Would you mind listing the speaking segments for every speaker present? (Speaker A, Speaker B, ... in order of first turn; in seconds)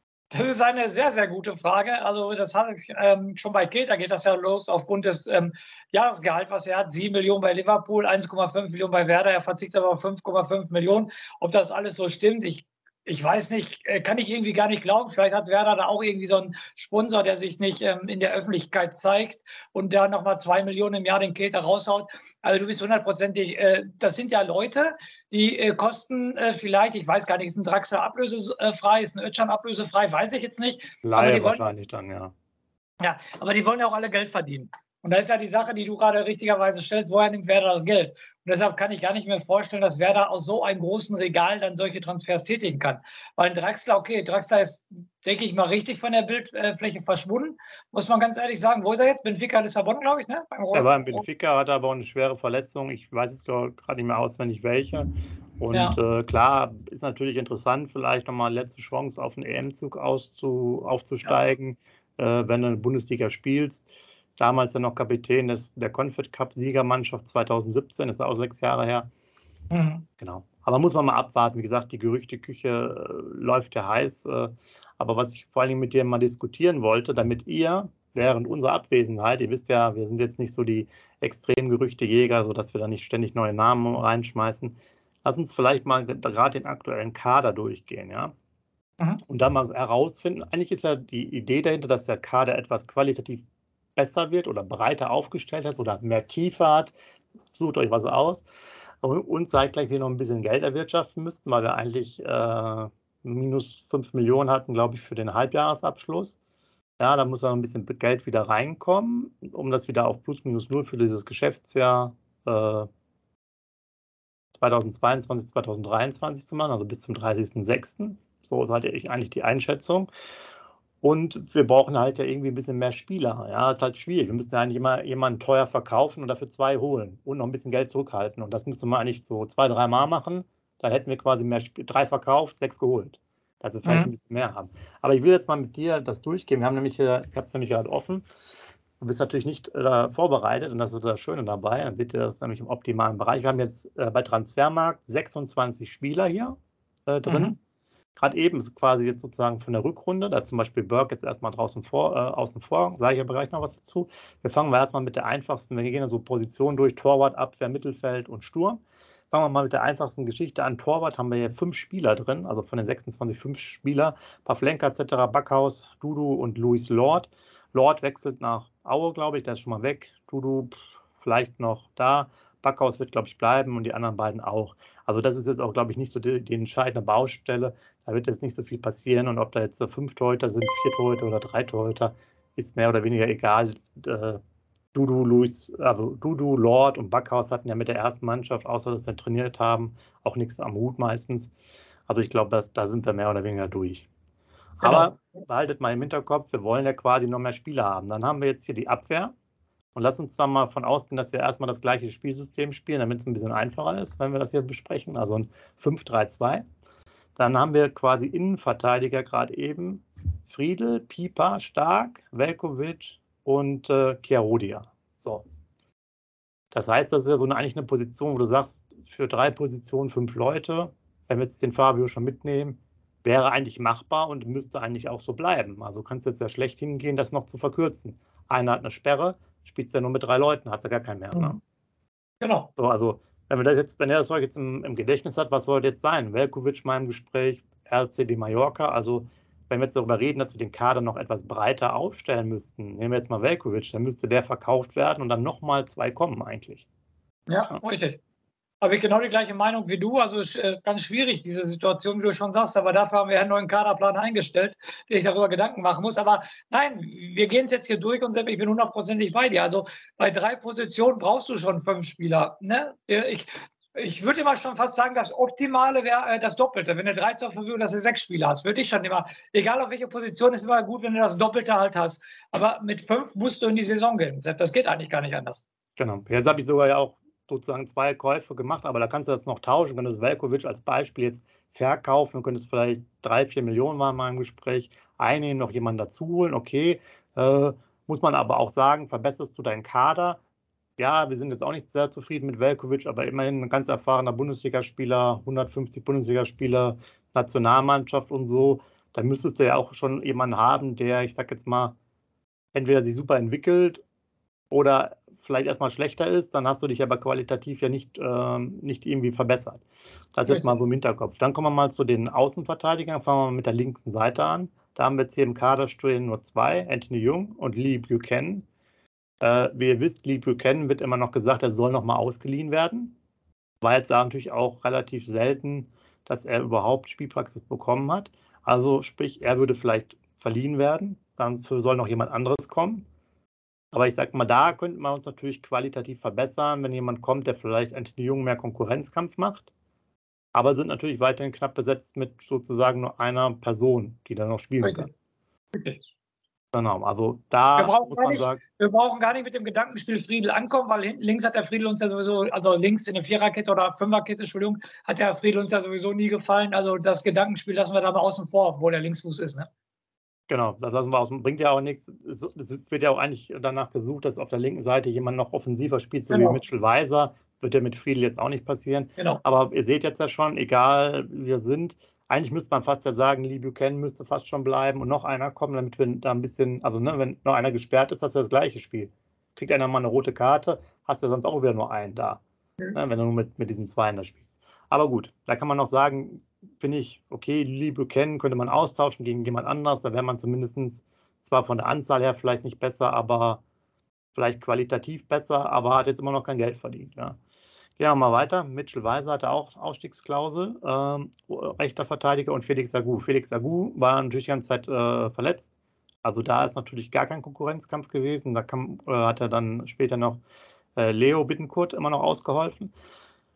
Speaker A: 0.3-31.6, 33.0-51.2, 55.7-56.0, 69.7-70.1, 133.8-134.1, 147.3-147.6, 194.8-195.1, 232.4-232.7, 247.5-248.2, 248.8-275.6, 344.8-345.1, 345.7-346.0, 347.8-359.7, 366.3-366.6
Speaker B: 31.0-32.3, 50.7-55.1, 55.6-69.1, 70.2-88.3, 89.3-93.4, 94.0-96.9, 97.5-98.5, 99.0-106.4, 107.0-112.9, 114.5-120.1, 121.0-138.2, 139.0-146.6, 147.1-147.6, 148.2-184.4, 184.9-191.5, 192.1-194.1, 194.8-199.3, 199.9-206.7, 207.4-215.4, 216.7-231.6, 232.8-246.9, 276.0-290.4, 291.0-302.0, 302.7-304.0, 304.7-309.8, 310.4-318.7, 319.4-323.1, 323.8-333.1, 333.9-339.7, 340.5-345.1, 346.7-348.6, 360.5-382.4, 382.9-393.6, 394.4-397.4, 398.0-405.7, 406.2-410.4, 411.0-412.9